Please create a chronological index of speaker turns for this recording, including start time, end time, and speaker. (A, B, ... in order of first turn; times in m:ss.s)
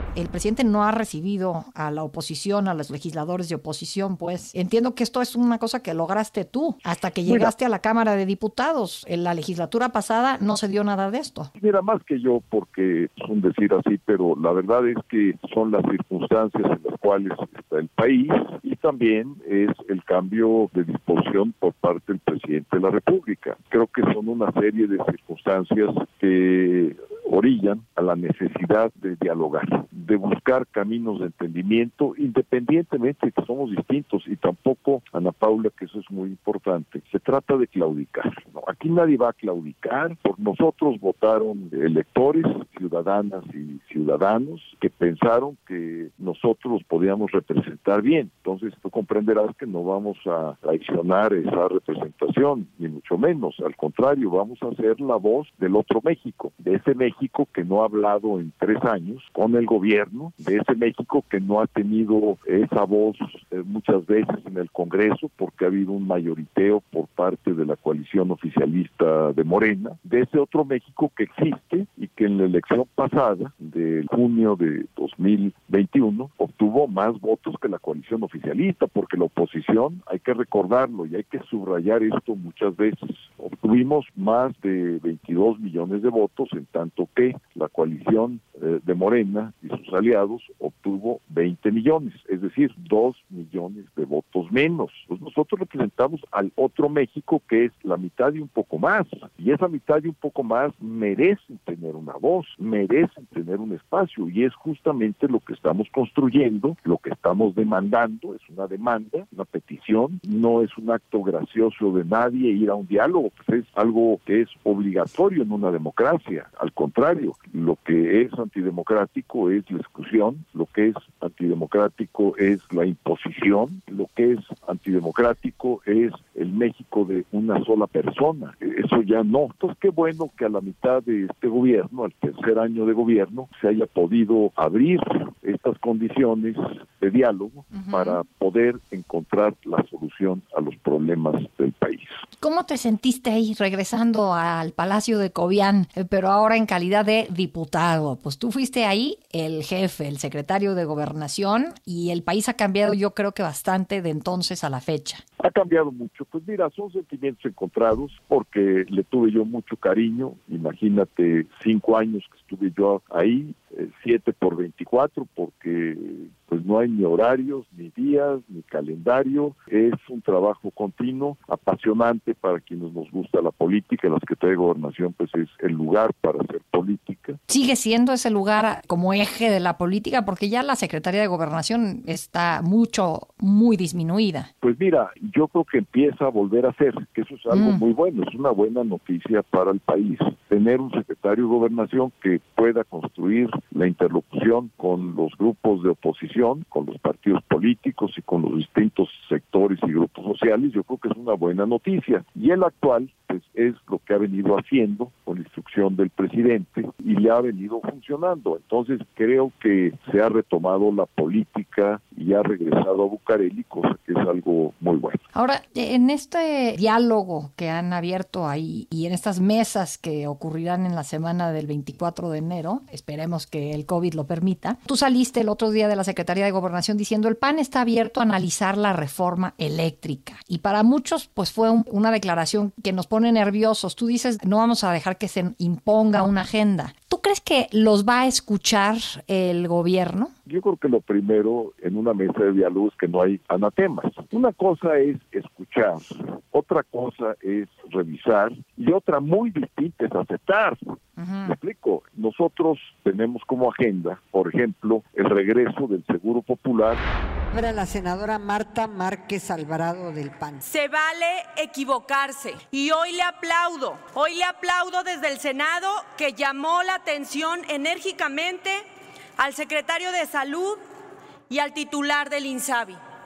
0:00.2-0:11.5 A
0:11.6-2:22.2 B
2:17.7-2:18.2 A
2:22.4-2:35.2 A
2:35.4-2:57.4 B
2:57.5-3:04.5 A
3:04.6-3:35.2 B
3:07.5-3:07.8 A
3:35.4-4:00.3 A
4:00.5-4:10.8 B
4:11.2-4:11.6 A
4:11.4-4:17.0 B
4:17.5-4:20.6 C
4:20.6-4:28.8 D
4:29.4-4:30.8 D
4:31.5-4:33.0 D